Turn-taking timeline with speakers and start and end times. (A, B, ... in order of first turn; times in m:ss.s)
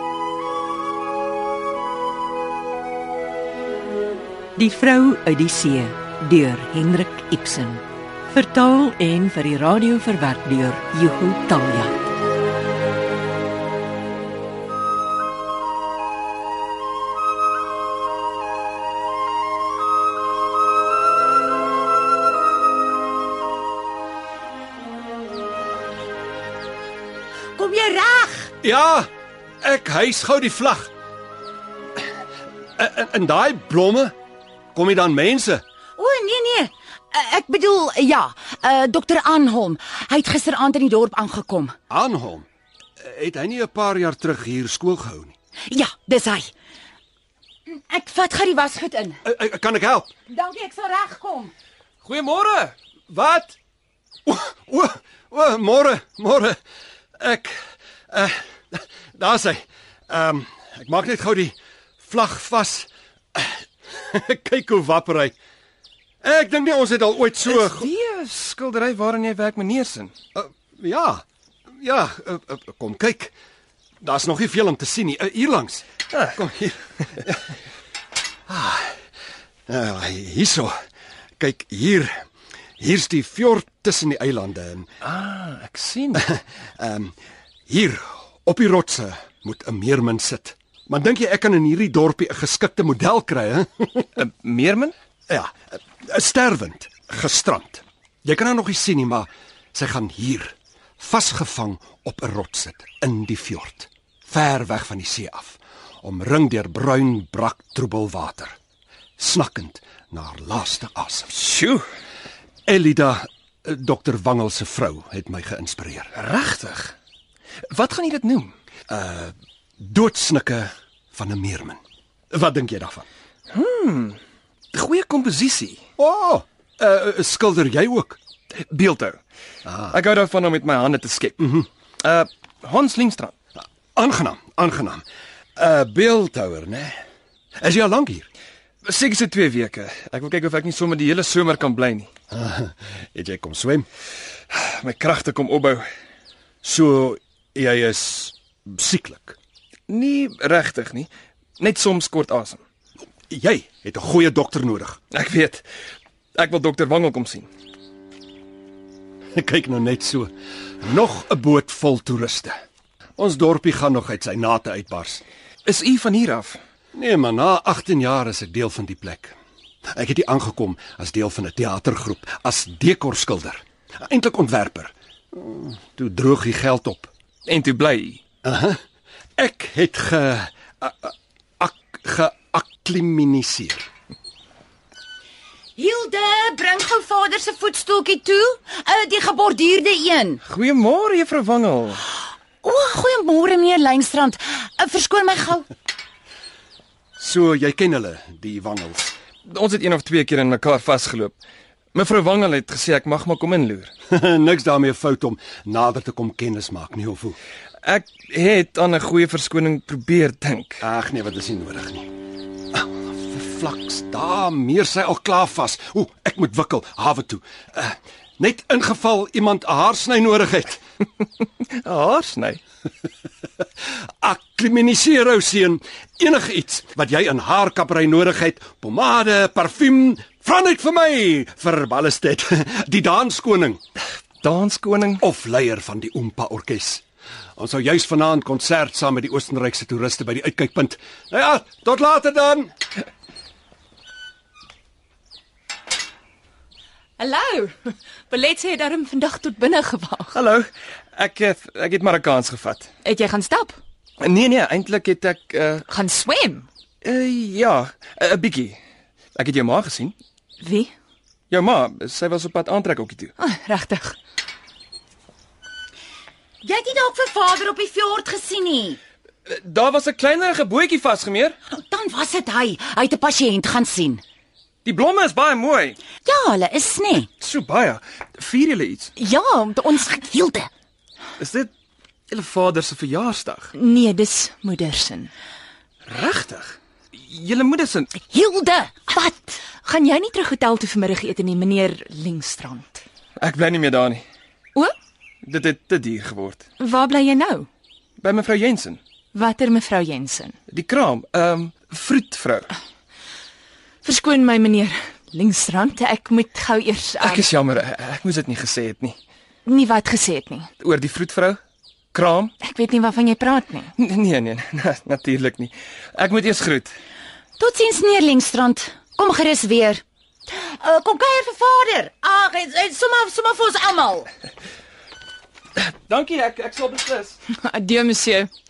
0:04.6-0:12.0 A
0:27.6-0:28.5 B
0:28.6-0:29.1 C
0:29.6-0:30.9 C
0:32.8-0:34.1 C
0:34.8-0:35.6 C
0:36.0-0:41.8 B
0:41.9-0:42.5 C
0:43.0-0:45.4 C
0:45.7-0:46.5 B
0:47.7-0:49.2 B
0:49.2-0:50.1 C
0:50.3-0:51.5 B
0:52.0-0:52.8 D
0:53.1-0:53.6 C
0:54.3-0:56.6 C
0:57.2-0:57.6 C
0:58.1-1:05.3 C
1:06.2-1:07.9 C
1:07.4-1:10.1 D
1:10.4-1:11.2 C
1:11.8-1:13.3 C
1:14.0-1:17.4 C
1:18.5-1:18.9 C
1:19.7-1:20.8 C
1:21.4-1:22.2 C
1:22.8-1:24.9 C
1:25.0-1:26.3 D
1:26.2-1:27.2 C
1:27.7-1:34.1 C
1:34.2-1:34.9 D
1:35.3-1:48.6 C
1:49.2-1:51.4 C
1:51.4-1:51.8 D
1:52.7-1:56.1 C
1:56.2-1:56.9 D
1:57.7-1:58.5 D
1:58.9-2:01.8 C
2:02.3-2:03.1 C
2:03.5-2:04.2 D
2:04.7-2:05.8 D
2:06.0-2:08.2 C
2:08.6-2:09.2 D
2:09.7-2:10.0 C
2:09.9-2:11.5 D
2:11.4-2:11.7 C
2:12.0-2:13.4 D
2:14.0-2:15.0 C
2:15.6-2:17.0 C
2:17.6-2:18.3 C
2:18.8-2:22.1 D
2:22.3-2:23.9 C
2:24.5-2:25.9 D
2:26.6-2:29.4 C
2:29.9-2:32.6 D
2:33.3-2:35.0 C
2:35.1-2:35.6 D
2:36.4-2:37.5 D
2:39.4-2:40.3 C
2:40.8-2:42.6 C
2:43.2-2:45.2 C
2:45.6-2:46.6 D
2:47.0-2:49.4 C
2:49.9-2:57.1 C
2:57.5-2:58.2 D
2:58.4-2:58.8 C
2:59.4-3:03.9 C
3:05.8-3:10.4 B
3:10.5-3:12.0 D
3:12.6-3:15.7 B
3:17.2-3:19.2 C
3:19.5-3:21.4 D
3:21.9-3:23.9 D
3:24.1-3:27.4 C
3:27.8-3:30.8 D
3:30.8-3:32.1 C
3:32.7-3:40.8 C
3:41.8-3:42.6 D
3:44.2-3:53.8 C
3:54.4-3:55.2 D
3:55.2-3:57.0 C
3:57.6-4:02.7 C
4:07.2-4:10.4 E
4:10.3-4:12.9 D
4:13.0-4:13.8 E
4:14.2-4:15.8 D
4:15.9-4:16.7 E
4:17.0-4:18.8 D
4:19.4-4:20.2 D
4:20.6-4:20.9 E
4:21.5-4:23.3 D
4:23.4-4:24.2 E
4:26.6-4:29.0 B
4:29.5-4:31.6 D
4:31.7-4:34.2 B
4:34.8-4:36.0 D
4:36.2-4:37.3 B
4:37.4-4:39.1 D
4:39.2-4:40.3 E
4:40.1-4:40.7 B
4:41.4-4:41.7 D
4:42.3-4:43.7 D
4:43.7-4:45.3 E
4:46.1-4:48.1 D
4:48.2-4:49.1 B
4:49.1-4:53.0 E
4:53.4-4:54.2 D
4:55.4-4:56.6 D
4:56.8-4:57.7 E
4:58.2-4:59.0 D
4:59.3-5:00.6 E
5:00.7-5:02.7 D
5:04.0-5:07.5 E
5:07.2-5:09.2 D
5:09.7-5:10.7 E
5:10.8-5:11.6 D
5:12.1-5:12.5 D
5:12.6-5:13.9 E
5:14.0-5:16.9 D
5:17.6-5:20.0 B
5:20.6-5:24.3 B
5:25.8-5:27.4 D
5:27.5-5:28.5 E